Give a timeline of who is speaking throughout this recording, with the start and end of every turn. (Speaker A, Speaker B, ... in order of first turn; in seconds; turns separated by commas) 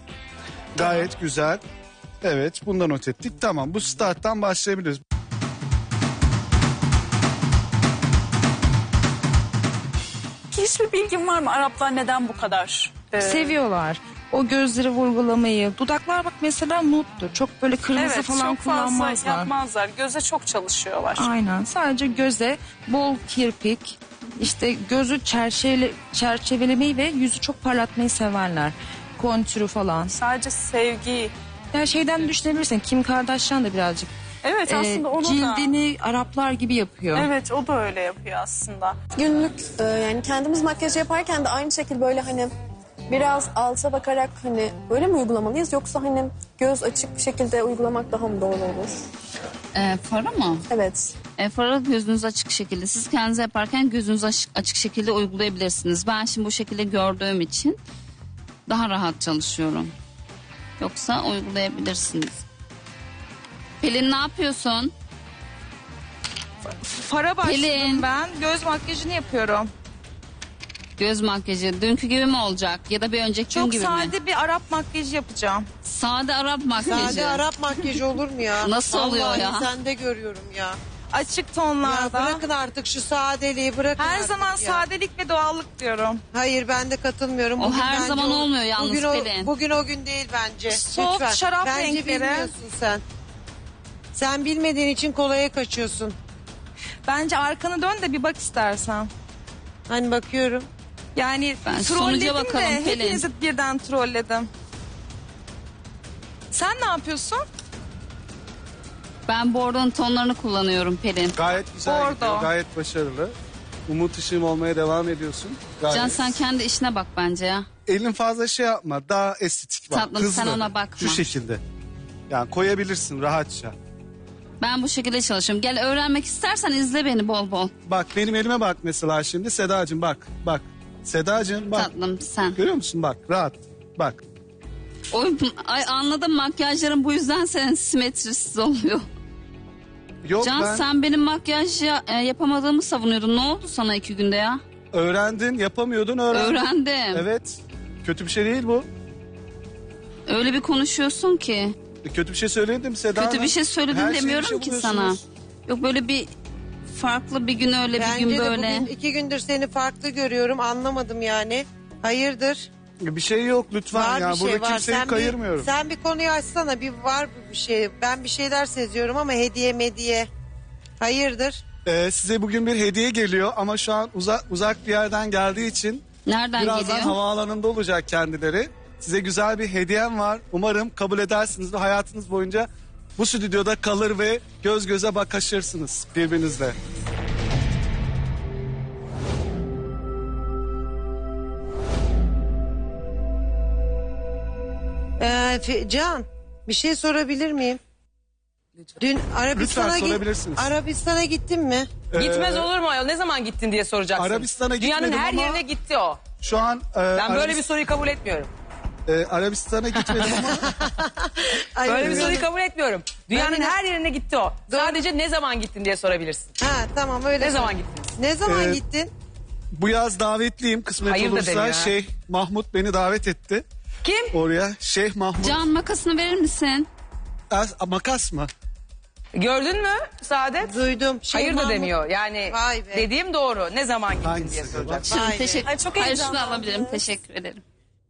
Speaker A: 0.7-1.6, Speaker A: 2.2-5.0, Speaker B: 10.5-13.6, Speaker C: 13.2-19.5, Speaker B: 17.9-21.4, Speaker C: 21.2-30.2, Speaker B: 30.1-31.3, Speaker C: 31.7-34.1, Speaker B: 34.4-35.7, Speaker C: 34.7-37.3, Speaker B: 37.1-39.0, Speaker D: 39.2-42.5, Speaker D: 43.1-49.0, Speaker E: 49.7-50.7, Speaker D: 50.7-51.1, Speaker E: 51.4-57.8, Speaker E: 58.7-59.9, Speaker E: 60.8-62.4, Speaker E: 63.8-64.9, Speaker C: 66.6-69.7, Speaker E: 67.4-68.0, Speaker E: 71.0-74.1, Speaker C: 73.5-75.7, Speaker E: 75.8-77.5, Speaker F: 76.8-80.8, Speaker E: 78.6-79.7, Speaker C: 81.1-82.5, Speaker F: 81.8-84.8, Speaker C: 84.0-86.2, Speaker F: 86.3-93.0, Speaker E: 87.6-89.5, Speaker C: 90.7-92.5, Speaker F: 94.1-96.2, Speaker C: 97.1-99.1, Speaker F: 99.9-100.7, Speaker C: 101.2-104.5, Speaker E: 101.7-103.2, Speaker C: 106.5-107.5, Speaker E: 109.3-111.4, Speaker A: 111.3-113.3, Speaker C: 111.8-112.5, Speaker A: 113.9-116.4, Speaker E: 115.9-117.7, Speaker A: 117.9-121.6, Speaker E: 119.9-121.3, Speaker A: 122.3-123.8, Speaker E: 124.6-127.7, Speaker A: 127.9-131.9, Speaker E: 131.7-132.6, Speaker A: 132.6-134.2, Speaker E: 135.1-139.1, Speaker A: 140.2-140.9, Speaker E: 140.4-144.6, Speaker A: 144.9-148.9, Speaker E: 146.3-147.3, Speaker E: 150.3-151.7, Speaker A: 152.0-155.2, Speaker E: 153.2-156.3, Speaker E: 156.9-158.9, Speaker F: 157.9-162.7, Speaker A: 163.0-165.7, Speaker F: 163.9-170.3, Speaker F: 171.0-171.6, Speaker A: 171.8-176.0, Speaker E: 176.3-177.2, Speaker A: 176.6-186.8, Speaker F: 195.2-197.8, Speaker F: 199.0-202.0, Speaker A: 199.5-200.7, Speaker A: 202.1-202.7, Speaker G: 202.1-206.3, Speaker A: 204.2-205.7, Speaker A: 206.3-207.7, Speaker G: 207.1-208.5, Speaker A: 209.1-210.7, Speaker G: 210.1-210.4, Speaker F: 210.5-212.5, Speaker G: 211.8-216.6, Speaker A: 211.9-212.4, Speaker F: 213.3-213.8, Speaker F: 214.7-215.1, Speaker F: 216.6-219.1, Speaker G: 217.4-218.2, Speaker A: 218.4-218.8, Speaker A: 219.7-223.6, Speaker G: 221.0-222.0, Speaker G: 224.0-224.4, Speaker A: 224.3-225.7, Speaker E: 225.4-226.9, Speaker A: 227.5-228.5, Speaker G: 229.3-235.0, Speaker F: 230.6-231.9, Speaker F: 232.5-233.1, Speaker A: 234.2-235.1, Speaker F: 235.0-235.7, Speaker E: 235.1-237.6, Speaker B: 235.8-236.6